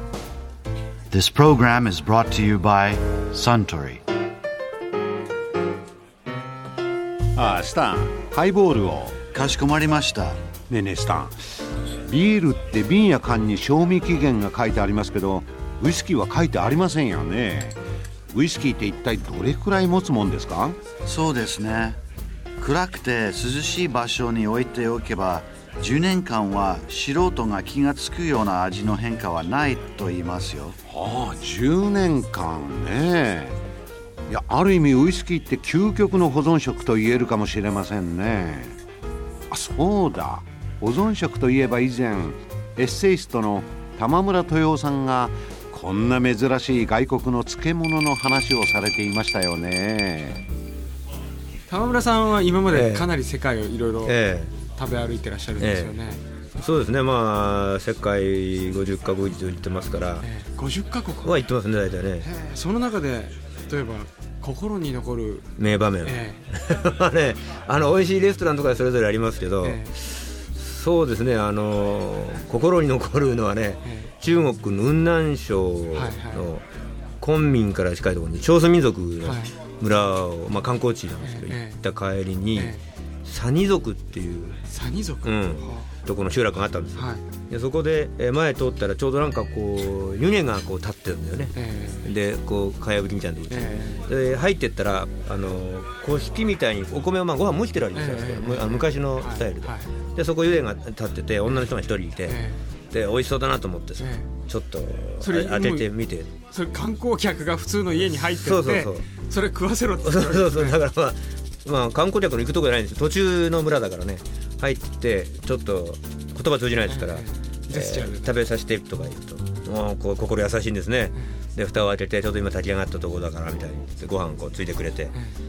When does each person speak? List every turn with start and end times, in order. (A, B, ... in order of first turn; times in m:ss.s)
0:01.1-0:04.0 A
0:07.3-0:09.2 B
0:09.3-0:10.4 A
0:10.7-0:11.4 B
0:12.1-0:17.8 B
0:18.3-0:20.8 B
0:21.0-0:22.0 A
0:22.6-0:30.8 A
0:30.9-0:33.6 B
0:34.3-0:38.8 B
0:39.5-0:50.4 B
0:51.7-0:56.2 C
0:52.7-0:53.1 D
0:54.0-0:54.6 D
0:55.6-0:56.0 D
0:56.6-1:00.3 D
1:00.2-1:01.5 C
1:01.2-1:02.3 D
1:02.2-1:05.4 C
1:05.6-1:16.6 D
1:06.0-1:06.4 C
1:09.6-1:09.9 C
1:15.9-1:16.5 C
1:17.2-1:22.7 D
1:19.2-1:19.5 C
1:21.2-1:21.8 C
1:23.2-1:24.6 D
1:24.7-1:25.9 C
1:25.2-1:42.4 D
1:31.6-1:32.0 C
1:33.5-1:34.0 C
1:37.9-1:39.9 C
1:42.3-1:42.6 C
1:42.9-1:46.3 D
1:44.0-1:44.3 C
1:45.2-1:45.9 C
1:46.4-1:50.8 C
1:48.0-1:49.1 D
1:50.0-2:05.1 D
1:56.9-1:58.3 C